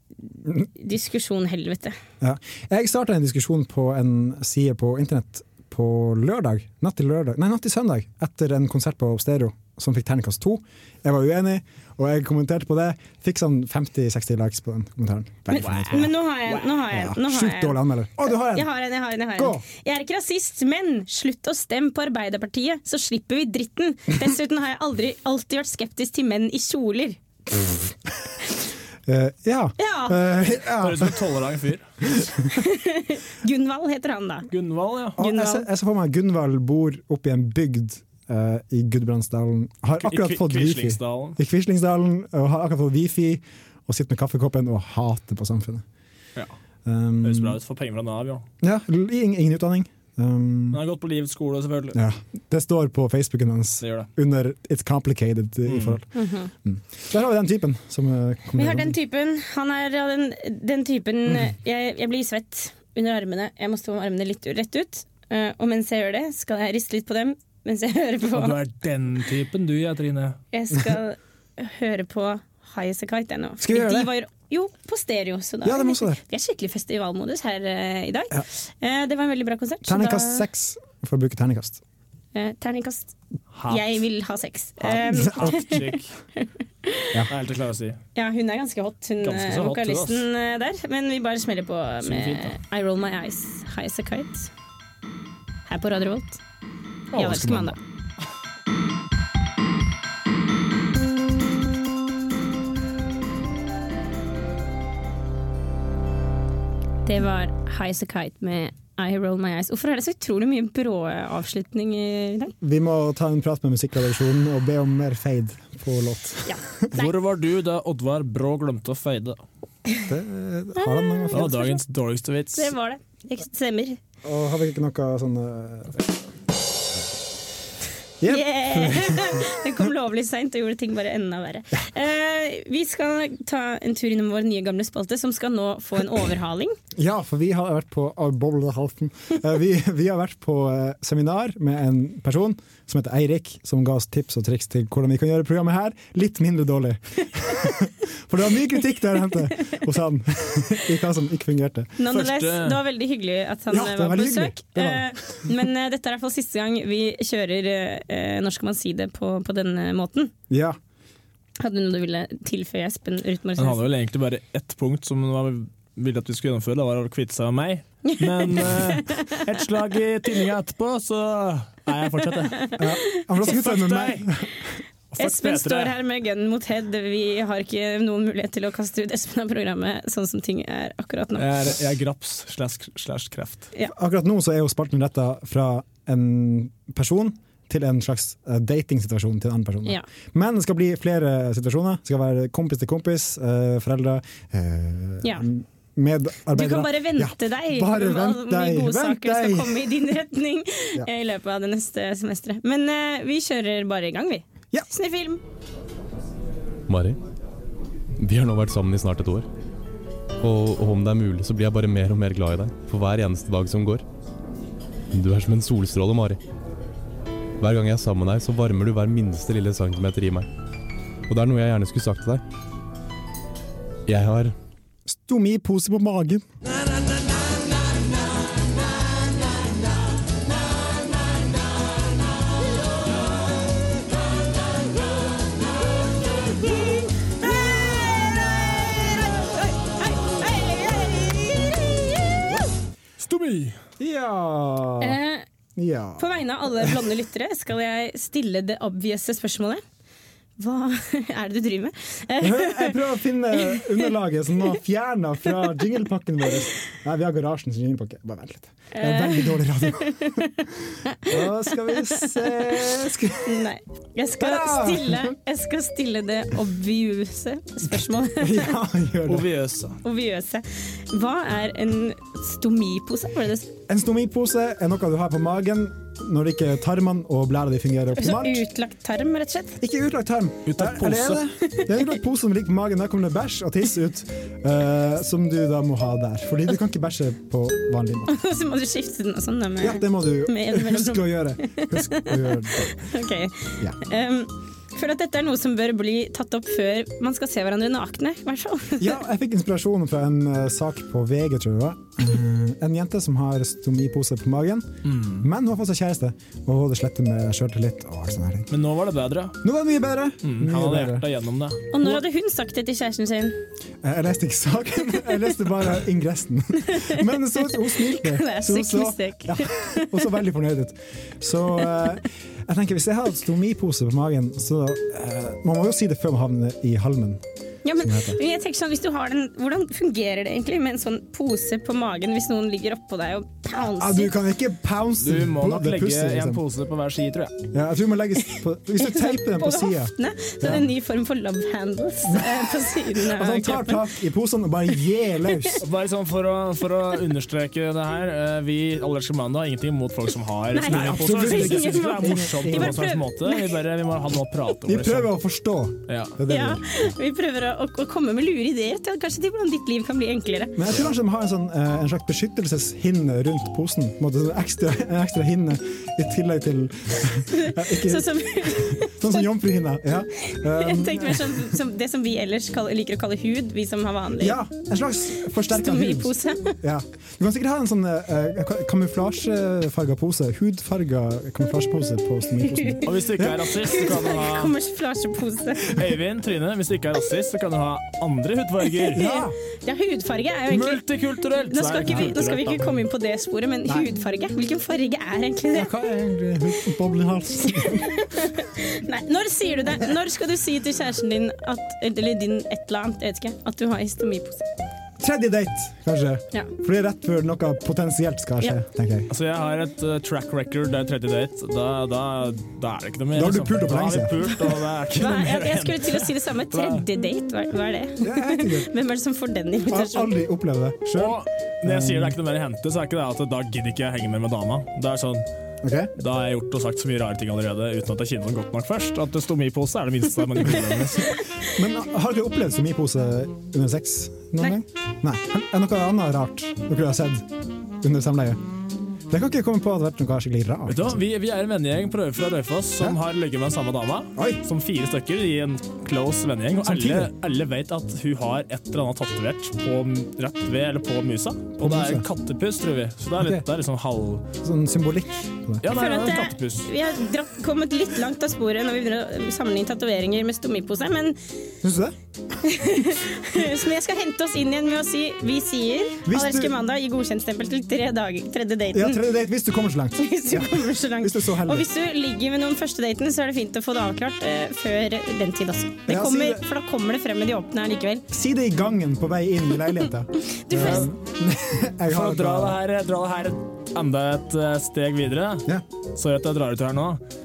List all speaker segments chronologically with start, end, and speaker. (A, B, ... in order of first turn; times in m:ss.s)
0:00.7-0:02.0 A
0:02.2-0:16.1 B
0:15.5-0:27.2 A
0:15.5-0:16.6 C
0:16.9-0:18.7 B
0:19.4-0:19.6 B
0:29.0-0:31.2 B
0:29.8-0:30.2 A
0:30.8-0:31.9 C
0:32.5-0:34.5 A
0:34.5-0:35.2 C
0:35.2-0:35.7 A
0:35.2-0:45.8 B
0:40.0-0:41.4 C
0:46.8-0:47.6 B
0:47.2-0:48.4 C
0:48.6-0:50.8 B
0:50.7-0:52.0 C
0:51.9-0:56.0 B
0:53.8-0:54.1 C
0:55.6-0:56.0 C
0:56.1-0:56.5 A
0:56.6-0:59.0 B
0:58.6-1:08.6 A
1:08.3-1:10.4 C
1:10.5-1:20.4 A
1:13.6-1:14.1 B
1:15.6-1:16.2 B
1:19.8-1:21.8 B
1:22.3-1:23.1 A
1:23.5-1:24.0 C
1:23.7-1:25.8 A
1:24.8-1:26.1 C
1:25.2-1:25.5 B
1:26.4-1:27.1 A
1:27.3-1:28.0 C
1:28.1-1:34.5 A
1:29.2-1:30.2 C
1:32.0-1:32.5 C
1:35.7-1:36.4 A
1:37.1-1:37.8 C
1:37.2-1:37.8 A
1:47.0-1:52.5 A
1:52.6-1:56.9 B
1:56.4-1:57.1 A
1:56.9-1:59.4 C
2:00.1-2:01.7 B
2:00.8-2:01.8 A
2:01.3-2:02.7 C
2:02.6-2:04.0 A
2:04.2-2:06.1 B
2:08.2-2:09.4 B
2:08.2-2:16.8 A
2:17.0-2:31.9 B
2:32.0-2:40.3 A
2:32.1-2:32.8 C
2:33.7-2:35.1 B
2:40.5-2:40.8 B
2:41.6-2:43.8 A
2:43.6-2:52.8 C
2:48.0-2:49.2 A
2:52.8-2:54.5 B
2:53.4-2:54.3 C
2:55.1-2:55.9 C
2:55.2-3:01.5 A
3:01.4-3:03.7 C
3:03.9-3:20.0 B
3:16.5-3:25.4 A
3:26.9-3:27.2 D
3:28.2-3:29.5 D
3:30.4-3:34.0 D
3:35.1-3:36.4 D
3:37.6-3:40.5 D
3:41.3-3:42.4 D
3:44.1-3:44.5 D
3:45.1-3:46.4 B
3:56.6-4:02.6 A
4:03.2-4:03.8 C
4:04.0-4:05.2 B
4:05.0-4:05.4 A
4:05.8-4:06.9 B
4:06.2-4:09.8 A
4:10.6-4:13.0 A
4:12.4-4:20.5 B
4:13.6-4:14.0 A
4:18.9-4:22.8 A
4:21.2-4:23.6 B
4:23.4-4:28.7 A
4:24.4-4:25.3 B
4:28.4-4:29.5 B
4:29.3-4:30.0 C
4:30.0-4:33.7 A
4:33.9-4:38.6 B
4:38.2-4:39.8 A
4:39.8-4:48.3 B
4:40.6-4:41.4 C
4:48.3-4:59.2 A
4:49.8-4:53.0 B
4:59.0-5:08.7 B
5:05.0-5:05.5 C
5:08.7-5:09.6 C
5:09.6-5:11.2 B
5:10.4-5:12.1 C
5:11.9-5:13.6 A
5:14.0-5:27.4 B
5:16.8-5:20.3 A
5:27.8-5:34.3 A
5:28.0-5:28.4 B
5:34.0-5:36.6 B
5:35.2-5:37.5 C
5:37.7-5:40.8 B
5:39.0-5:44.1 A
5:42.2-5:42.5 B
5:43.1-5:45.8 B
5:45.8-5:55.3 C
5:50.7-5:53.8 A
5:50.8-5:53.1 B
5:54.9-5:56.8 B
5:56.1-5:56.4 C
5:56.5-6:00.8 A
6:00.8-6:11.7 B
6:07.5-6:09.4 A
6:10.5-6:14.6 A
6:14.4-6:23.7 B
6:15.7-6:16.8 A
6:23.0-6:24.7 C
6:23.8-6:26.0 A
6:25.9-6:29.2 C
6:29.0-6:31.0 A
6:29.1-6:29.5 B
6:30.7-6:32.9 C
6:31.7-6:35.9 A
6:35.7-6:38.1 B
6:37.7-6:44.6 A
6:45.2-6:49.3 B
6:49.3-6:57.0 C
6:53.3-6:54.4 B
6:55.1-7:00.3 A
6:58.2-6:58.9 B
6:59.9-7:02.3 B
7:01.2-7:05.4 C
7:05.8-7:06.1 B
7:06.2-7:11.4 C
7:11.6-7:17.5 B
7:18.0-7:18.6 B
7:19.3-7:21.2 B
7:20.9-7:34.4 C
7:24.4-7:24.6 B
7:26.8-7:27.3 B
7:31.8-7:32.2 B
7:33.4-7:33.6 B
7:34.6-7:35.8 B
7:35.8-7:36.9 C
7:35.8-7:41.4 A
7:41.8-7:42.1 B
7:42.6-7:49.2 A
7:46.2-7:46.7 B
7:48.9-7:51.9 B
7:50.2-7:58.2 A
7:56.1-7:56.6 B
7:58.3-8:02.8 B
8:00.5-8:01.1 A
8:00.7-8:01.1 C
8:02.1-8:07.2 C